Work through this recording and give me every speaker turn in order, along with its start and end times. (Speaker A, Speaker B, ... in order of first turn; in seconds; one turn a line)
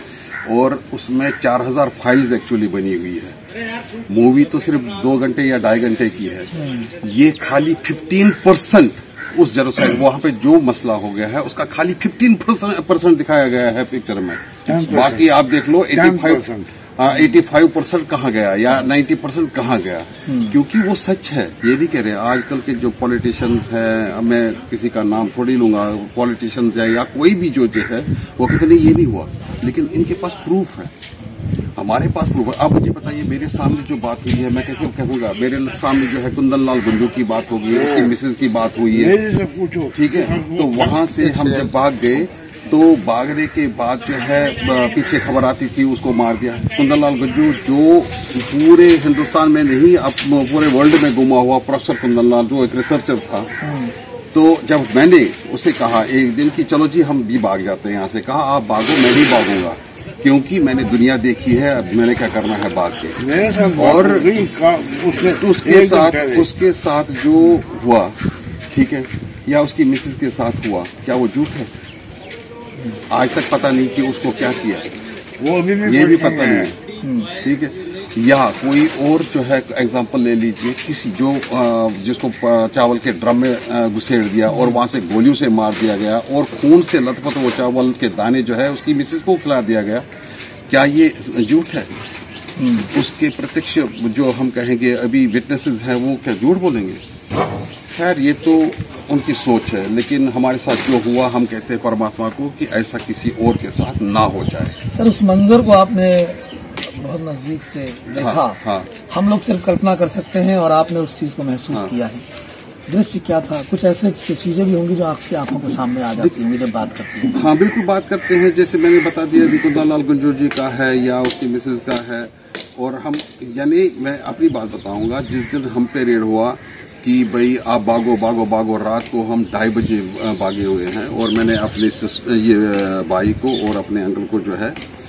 Speaker A: 0.4-3.4
Speaker A: 4.1-6.5
Speaker B: 6.5-6.9
Speaker A: 7.0-16.4
Speaker C: 14.7-15.3
Speaker C: 15.9-16.7
Speaker A: 17.0-30.9
Speaker B: 20.3-20.5
Speaker A: 31.8-39.1
Speaker C: 37.7-38.1
Speaker C: 38.9-41.7
Speaker A: 39.9-53.5
Speaker B: 53.6-53.9
Speaker A: 54.3-63.2
Speaker C: 63.2-66.5
Speaker A: 63.8-64.3
Speaker A: 65.4-68.1
Speaker A: 68.7-71.7
Speaker A: 73.1-74.9
Speaker C: 75.4-76.7
Speaker A: 75.8-76.8
Speaker B: 77.0-77.3
Speaker A: 77.4-90.0
Speaker B: 84.5-84.8
Speaker A: 90.7-91.9
Speaker B: 92.6-92.9
Speaker A: 92.9-97.0
Speaker A: 97.9-104.7
Speaker B: 104.9-112.2
Speaker A: 108.2-108.9
Speaker B: 112.9-117.4
Speaker A: 117.3-134.8